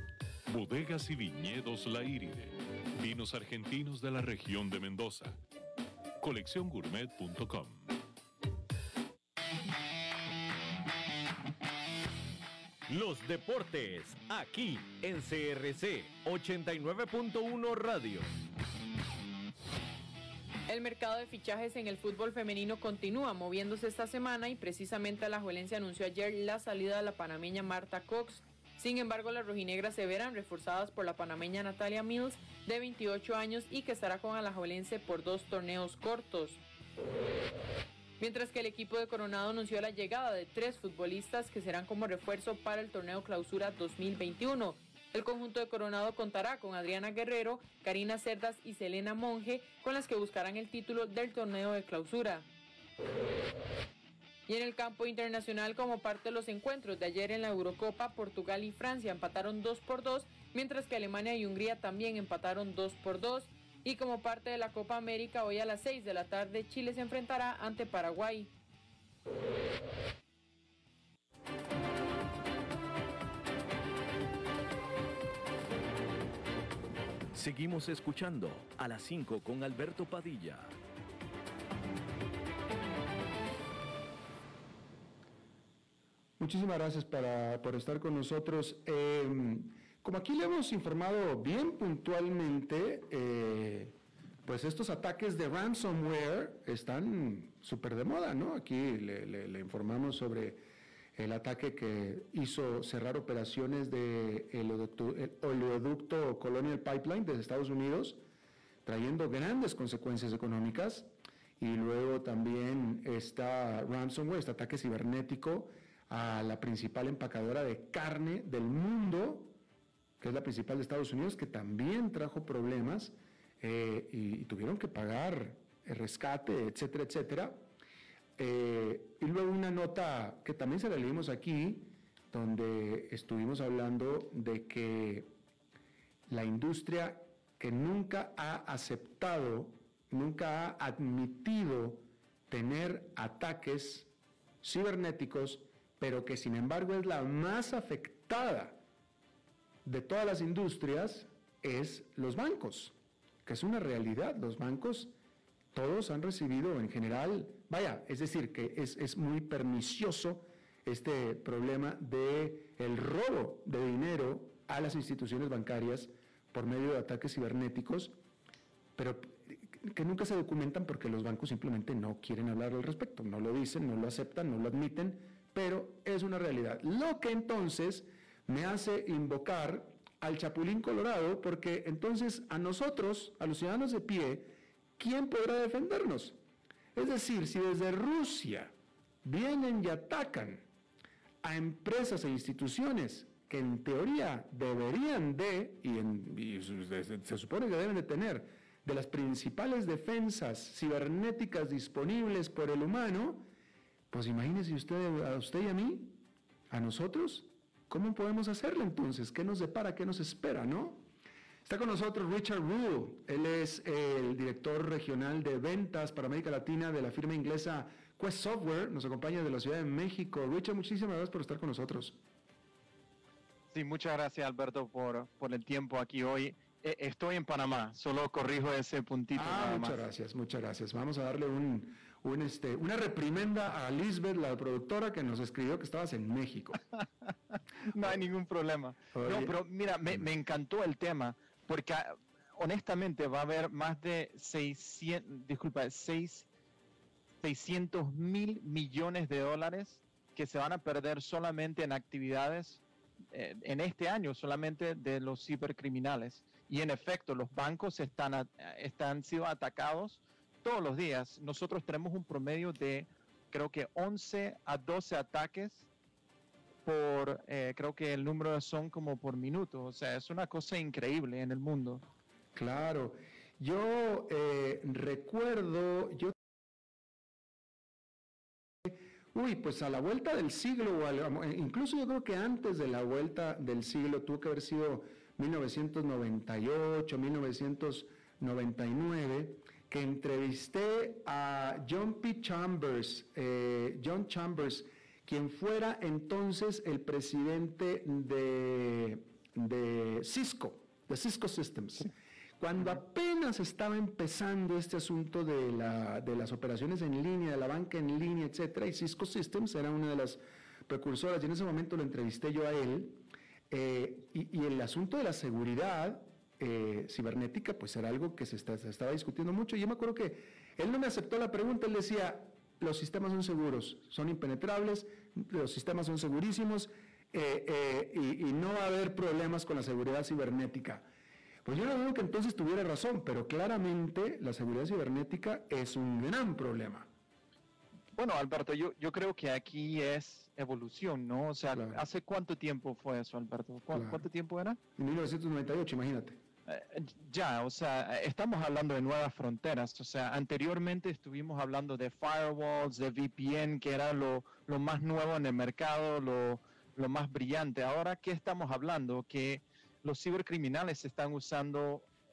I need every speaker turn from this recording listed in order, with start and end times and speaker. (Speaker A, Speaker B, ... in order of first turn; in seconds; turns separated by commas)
Speaker A: 0.5-5.4, Speaker A: 6.2-7.9, Speaker B: 12.9-18.4, Speaker C: 20.7-36.6, Speaker C: 38.2-52.5, Speaker C: 54.5-68.5, Speaker B: 77.3-80.8, Speaker D: 86.4-100.6, Speaker D: 101.2-108.2, Speaker D: 108.8-119.5, Speaker D: 120.2-127.6, Speaker D: 128.4-135.3, Speaker D: 136.3-144.1, Speaker D: 144.6-148.8, Speaker D: 149.8-155.1, Speaker D: 155.7-168.2, Speaker D: 169.0-186.4, Speaker D: 186.9-190.7, Speaker D: 191.4-203.4, Speaker D: 204.1-211.1, Speaker D: 211.7-222.2, Speaker E: 223.7-230.1, Speaker D: 229.3-236.8, Speaker E: 237.9-246.5, Speaker D: 239.1-239.6, Speaker E: 247.4-265.9, Speaker E: 266.9-272.0, Speaker D: 272.6-276.4, Speaker D: 278.9-331.1, Speaker D: 331.6-337.1, Speaker E: 338.2-344.8, Speaker D: 341.8-342.0, Speaker D: 343.9-344.2, Speaker D: 345.0-346.4, Speaker E: 346.7-362.1